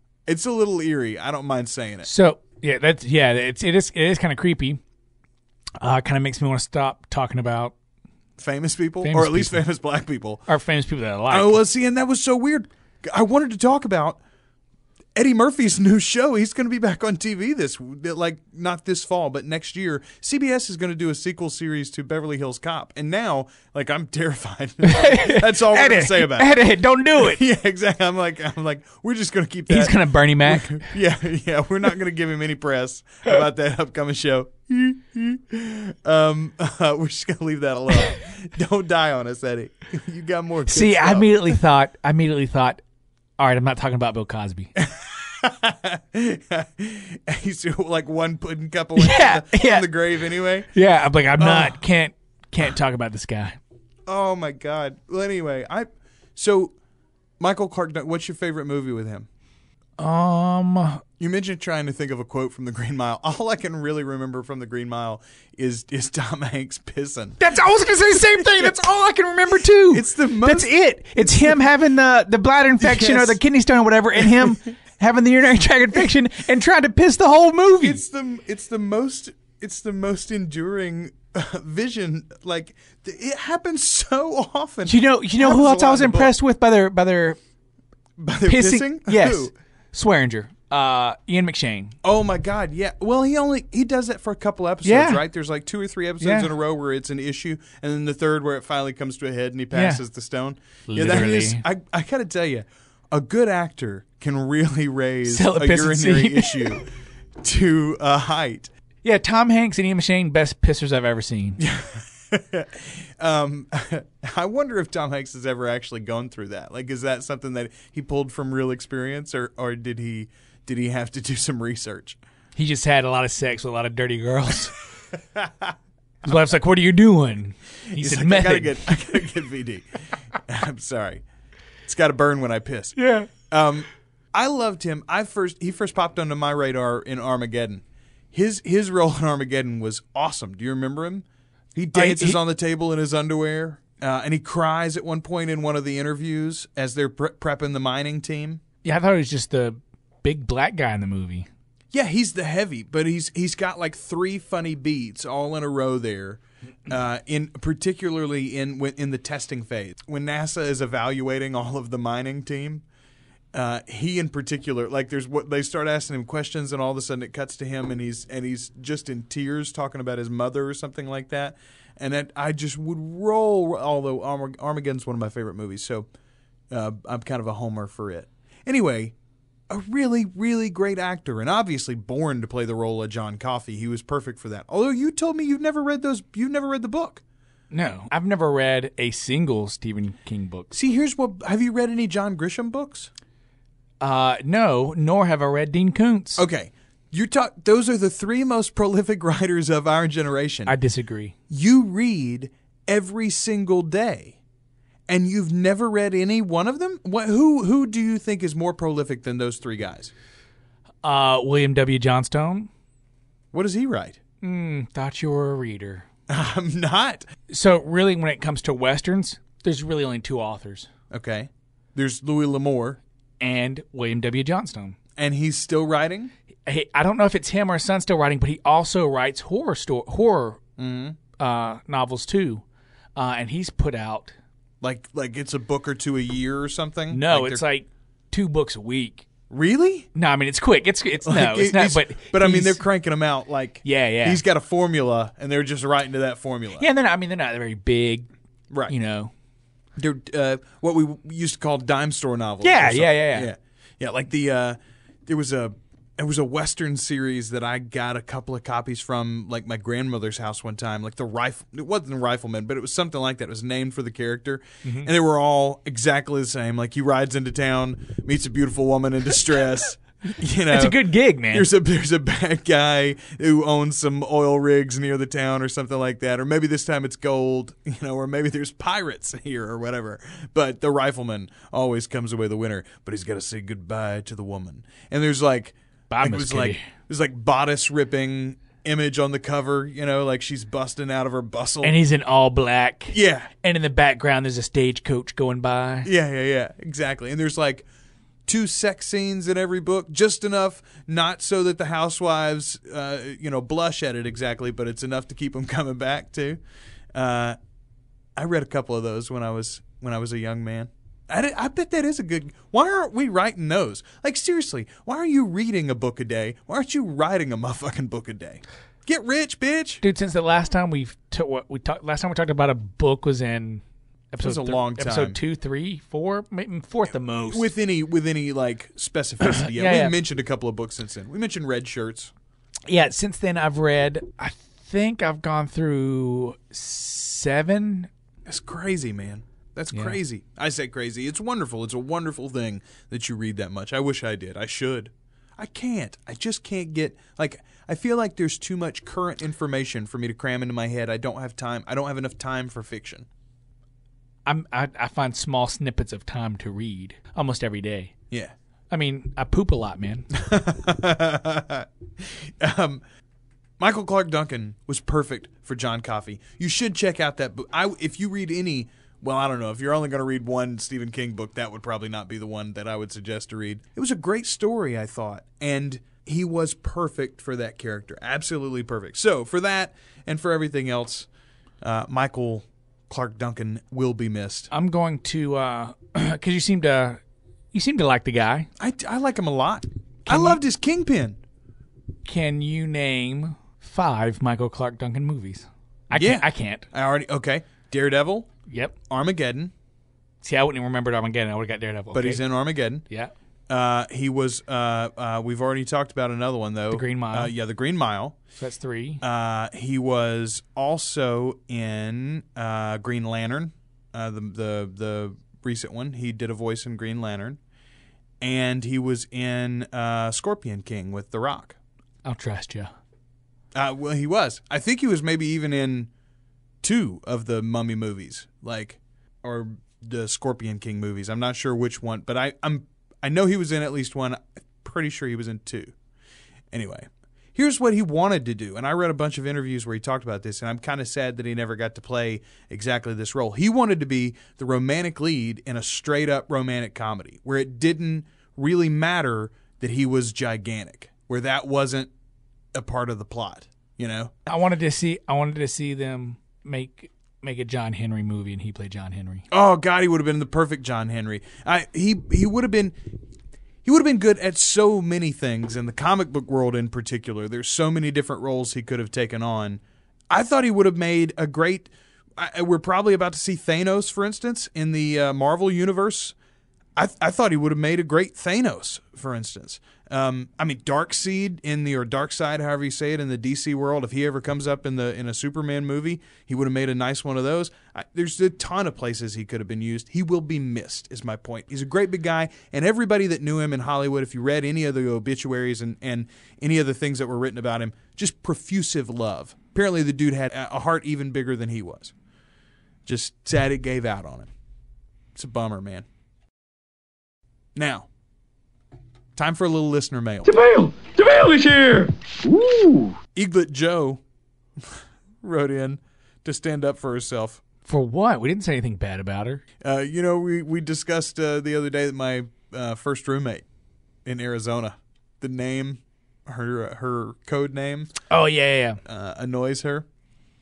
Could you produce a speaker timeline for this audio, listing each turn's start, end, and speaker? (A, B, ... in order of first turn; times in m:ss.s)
0:00.3-0:02.1 A
0:02.0-0:04.8 B
0:05.8-0:07.7 B
0:08.4-0:10.4 A
0:09.0-0:09.6 B
0:10.5-0:11.6 B
0:11.3-0:14.2 A
0:15.2-0:26.6 A
0:24.8-0:27.4 B
0:27.2-0:41.6 A
0:29.7-0:30.9 B
0:40.7-0:42.8 B
0:43.4-0:44.7 B
0:44.8-0:50.7 A
0:49.0-0:49.9 B
0:50.7-0:53.6 B
0:51.4-0:51.8 A
0:54.1-0:56.7 A
0:57.4-0:59.3 A
1:00.0-1:01.0 B
1:01.2-1:07.5 A
1:07.4-1:18.0 B
1:08.4-1:08.8 A
1:09.9-1:11.6 A
1:12.8-1:13.4 A
1:14.2-1:14.6 A
1:17.8-1:26.4 A
1:24.9-1:27.4 B
1:28.2-1:29.5 A
1:28.5-1:32.0 B
1:32.0-1:46.9 A
1:34.8-1:35.2 B
1:36.2-1:36.5 B
1:39.7-1:40.0 B
1:40.9-1:41.6 B
1:45.3-1:46.8 B
1:47.4-1:48.7 A
1:49.0-1:51.6 B
1:51.6-2:02.2 A
2:02.6-2:04.8 B
2:05.4-2:05.7 A
2:06.2-2:09.2 B
2:07.9-2:11.2 A
2:11.9-2:28.6 A
2:13.0-2:13.3 B
2:21.9-2:22.4 B
2:28.8-2:31.5 B
2:31.9-2:42.8 A
2:43.5-2:56.1 A
2:56.7-2:59.2 A
2:59.7-3:07.2 A
3:07.7-3:10.7 B
3:10.7-3:13.1 A
3:14.0-3:16.4 B
3:16.4-3:20.8 A
3:20.7-3:21.3 B
3:21.5-3:24.4 A
3:25.1-3:30.1 A
3:31.0-3:32.7 B
3:33.5-3:34.2 A
3:34.4-3:36.1 B
3:36.3-3:37.3 A
3:37.5-3:40.9 B
3:41.1-3:43.0 A
3:43.4-3:45.0 B
3:45.2-3:46.3 A
3:46.7-3:50.6 B
3:50.8-3:51.2 A
3:51.4-3:52.6 B
3:53.2-3:54.3 B
3:54.8-3:57.6 A
3:57.1-3:59.3 B
3:59.5-4:00.1 A
4:00.1-4:02.8 B
4:01.2-4:06.9 A
4:03.8-4:04.4 B
4:06.8-4:08.3 B
4:08.9-4:09.3 B
4:10.0-4:52.0 A
4:12.6-4:13.5 B
4:24.8-4:25.1 B
4:30.7-4:31.7 B
4:46.1-4:46.9 B
4:51.8-4:56.1 B
4:53.1-4:53.5 A
4:56.0-4:57.9 A
4:58.5-5:06.6 A
5:07.1-5:07.6 A
5:08.4-5:20.0 A
5:20.0-5:27.7 B
5:24.4-5:25.4 A
5:27.1-5:32.3 A
5:29.4-5:30.2 B
5:32.9-5:38.1 B
5:38.5-5:53.3 A
5:54.5-5:58.1 B
5:58.9-6:00.3 B
6:00.3-6:03.0 A
6:03.8-6:21.3 A
6:21.8-6:24.7 A
6:24.7-6:27.2 B
6:27.7-6:28.7 B
6:28.8-6:31.4 A
6:30.3-6:30.6 B
6:32.2-6:36.9 B
6:36.1-6:38.5 A
6:38.7-6:38.9 B
6:39.1-6:39.7 A
6:40.4-6:42.4 B
6:42.1-6:43.0 A
6:43.7-6:48.4 A
6:46.9-6:47.5 B
6:48.6-6:49.2 B
6:49.2-6:57.6 A
6:58.4-7:01.8 A
7:02.2-7:02.9 B
7:03.7-7:06.1 A
7:06.8-7:15.9 A
7:16.7-7:32.1 A
7:32.7-7:34.5 A
7:34.5-7:39.4 B
7:39.5-7:43.0 A
7:43.8-7:56.4 A
7:57.0-8:22.1 A
8:23.1-8:24.5 A
8:25.4-8:26.1 A
8:27.8-8:28.1 A
8:29.4-8:30.6 A
8:30.4-8:33.1 C
8:33.4-8:34.2 A
8:34.8-8:37.6 A
8:37.9-8:39.6 B
8:39.8-8:43.6 A
8:44.2-8:48.1 A
8:48.3-8:49.0 B
8:49.0-8:50.1 A